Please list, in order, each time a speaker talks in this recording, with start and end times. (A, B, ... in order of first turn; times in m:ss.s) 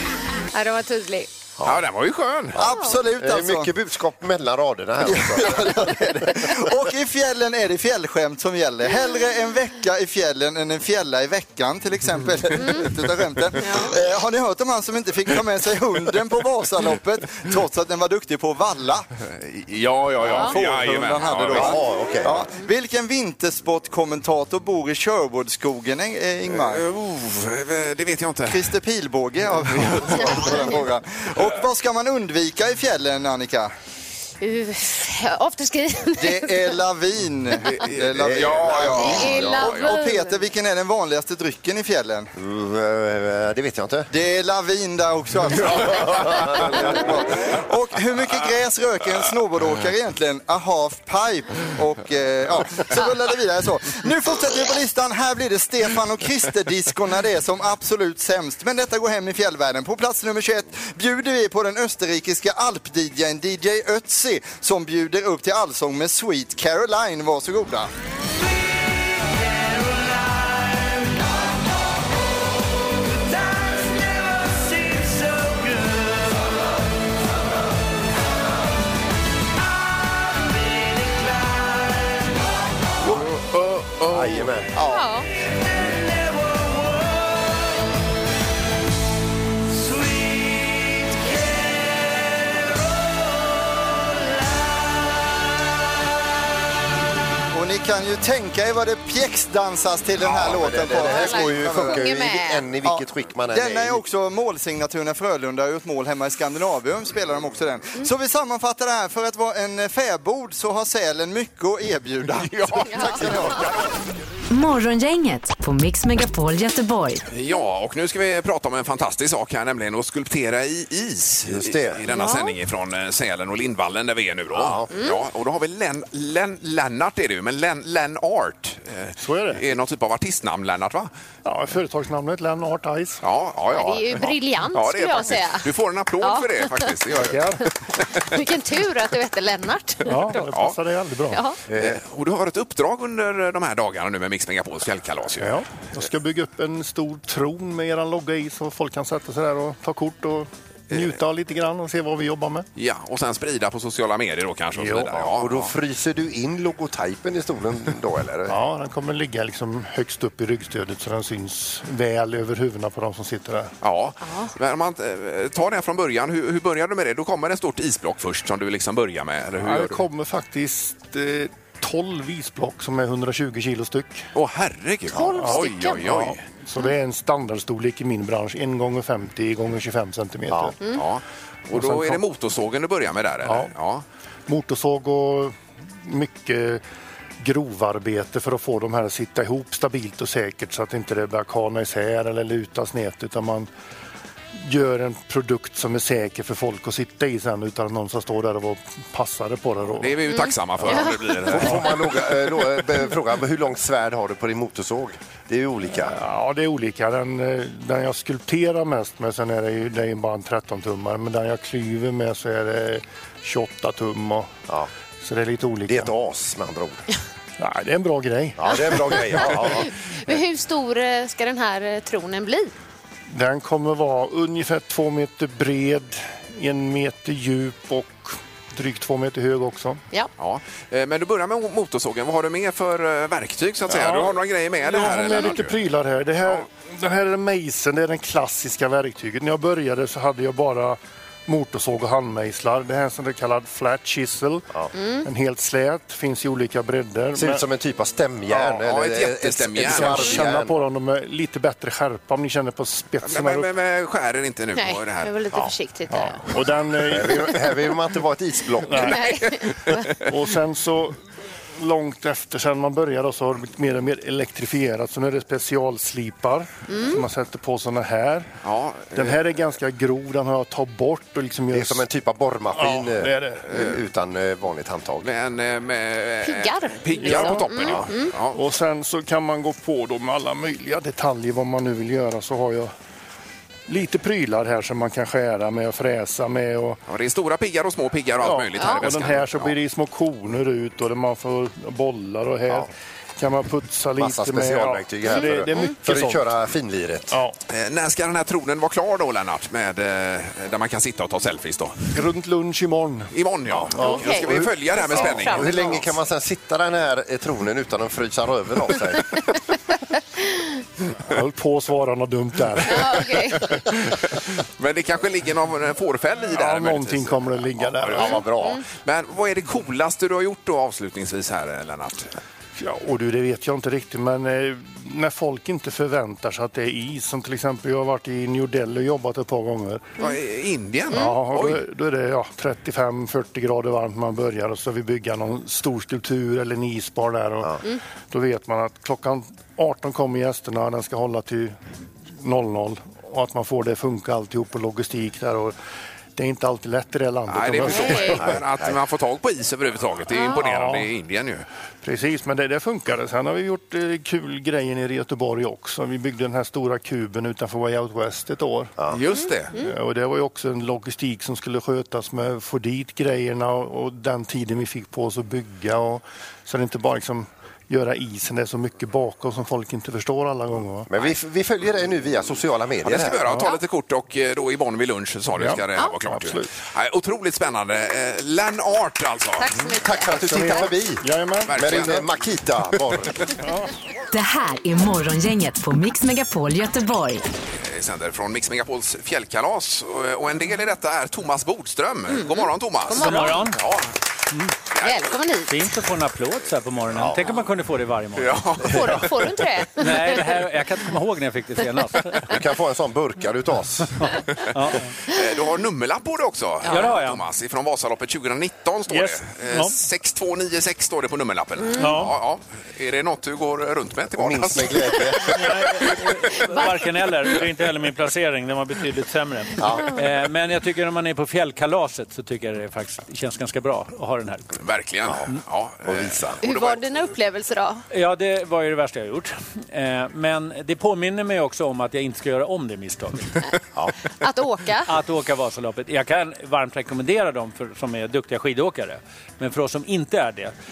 0:00.5-0:01.3 A
0:01.6-0:02.6 B
0:02.5-0:06.5 C
0:02.6-0:03.7 D
0:05.0-0:19.1 D
0:12.6-0:12.9 A
0:13.6-0:14.0 A
0:19.3-0:21.8 B
0:20.2-0:26.8 D
0:20.2-0:20.5 A
0:21.5-0:22.5 C
0:26.5-0:28.7 B
0:28.5-0:33.7 D
0:29.6-0:30.6 B
0:34.4-0:36.7 A
0:36.2-0:42.3 D
0:37.6-0:39.9 B
0:38.1-0:39.6 C
0:38.9-0:40.4 A
0:42.4-0:44.1 C
0:44.1-1:07.9 D
0:45.7-0:47.1 C
1:23.1-1:24.5 B
1:24.1-1:24.8 C
1:24.8-1:25.3 A
1:37.5-1:42.0 D
1:40.2-1:44.0 C
1:41.0-1:42.6 A
1:42.8-1:53.8 D
1:52.4-1:53.6 B
1:52.9-1:53.2 A
1:54.5-1:57.2 E
1:57.3-2:11.1 B
2:01.4-2:02.0 C
2:02.1-2:02.5 A
2:04.5-2:04.9 C
2:09.2-2:09.6 F
2:11.4-2:13.2 F
2:13.2-2:17.5 B
2:13.7-2:15.7 A
2:16.2-2:16.9 A
2:17.1-2:17.6 F
2:18.1-2:20.4 A
2:20.1-2:21.4 F
2:20.4-2:20.7 B
2:21.3-2:21.6 A
2:21.7-2:22.0 C
2:21.8-2:25.5 B
2:25.4-2:32.6 F
2:32.8-2:35.7 B
2:34.8-2:38.6 C
2:38.5-2:43.7 F
2:43.8-2:50.0 B
2:44.2-2:44.5 A
2:49.6-2:54.3 F
2:54.3-2:56.4 B
2:55.1-2:56.0 A
2:55.2-3:00.8 F
3:00.9-3:04.0 B
3:01.7-3:02.2 F
3:03.4-3:03.7 F
3:04.5-3:06.8 F
3:07.4-3:13.7 F
3:14.6-3:20.2 F
3:20.0-3:22.0 B
3:20.3-3:21.4 A
3:21.5-3:26.2 C
3:26.0-3:34.5 F
3:35.2-3:36.1 F
3:35.9-3:37.0 C
3:37.6-3:39.4 F
3:38.6-3:39.9 C
3:39.4-3:42.7 A
3:43.3-3:50.0 F
3:50.4-3:55.7 B
3:53.9-4:04.7 F
4:04.9-4:05.3 A
4:05.2-4:07.6 F
4:07.3-4:10.7 C
4:08.5-4:10.4 B
4:09.8-4:13.7 F
4:13.2-4:15.7 B
4:14.8-4:16.4 A
4:16.1-4:17.6 F
4:17.1-4:19.2 C
4:18.9-4:19.2 F
4:19.0-4:20.0 A
4:20.3-4:21.2 F
4:21.8-4:28.5 F
4:26.9-4:27.2 A
4:28.6-4:29.3 B
4:29.1-4:32.0 F
4:31.7-4:35.3 C
4:32.7-4:33.6 F
4:35.2-4:38.6 B
4:36.4-4:38.3 A
4:37.2-4:42.9 F
4:43.9-4:47.0 F
4:47.1-4:49.7 B
4:48.4-4:56.4 F
4:48.8-4:49.0 A
4:54.2-4:57.4 C
4:55.3-4:55.9 A
4:57.3-4:57.6 F
4:57.7-5:02.1 B
5:02.1-5:03.3 F
5:03.3-5:05.8 B
5:03.7-5:09.3 C
5:04.0-5:06.0 A
5:11.3-5:13.3 F
5:12.8-5:13.7 A
5:14.8-5:18.4 B
5:16.5-5:18.4 F
5:18.1-5:18.8 C
5:19.0-5:22.3 B
5:22.8-5:30.2 F
5:30.2-5:31.8 B
5:31.1-5:41.8 F
5:42.4-5:45.8 F
5:46.3-5:48.5 F
5:47.5-5:51.6 B
5:47.9-5:48.4 A
5:48.4-5:49.0 C
5:50.4-5:51.1 F
5:52.0-5:58.9 F
5:59.1-5:59.7 B
5:59.3-5:59.9 A
5:59.7-6:11.1 F
6:11.1-6:13.6 C
6:13.0-6:19.7 B
6:15.5-6:16.7 F
6:19.6-6:20.9 A
6:20.0-6:23.5 C
6:20.4-6:22.0 F
6:21.7-6:22.2 B
6:23.6-6:23.9 F
6:24.3-6:27.4 E
6:27.8-6:34.1 B
6:32.3-6:33.7 A
6:33.1-6:33.8 G
6:34.9-6:35.4 B
6:35.0-6:35.9 A
6:35.7-6:39.3 G
6:37.1-6:37.4 C
6:38.4-6:39.3 B
6:38.8-6:40.5 A
6:40.0-6:42.5 G
6:42.5-6:44.3 C
6:44.4-6:45.1 G
6:45.3-6:55.8 B
6:46.8-6:47.1 A
6:46.8-6:47.4 G
6:49.1-6:49.9 G
6:52.0-6:52.4 G
6:54.4-6:55.8 C
6:55.5-7:04.7 G
6:56.6-6:56.9 A
6:59.8-7:00.1 C
7:04.8-7:07.0 B
7:06.0-7:06.6 C
7:06.6-7:08.0 A
7:08.1-7:13.6 G
7:14.4-7:15.1 A
7:15.1-7:20.7 G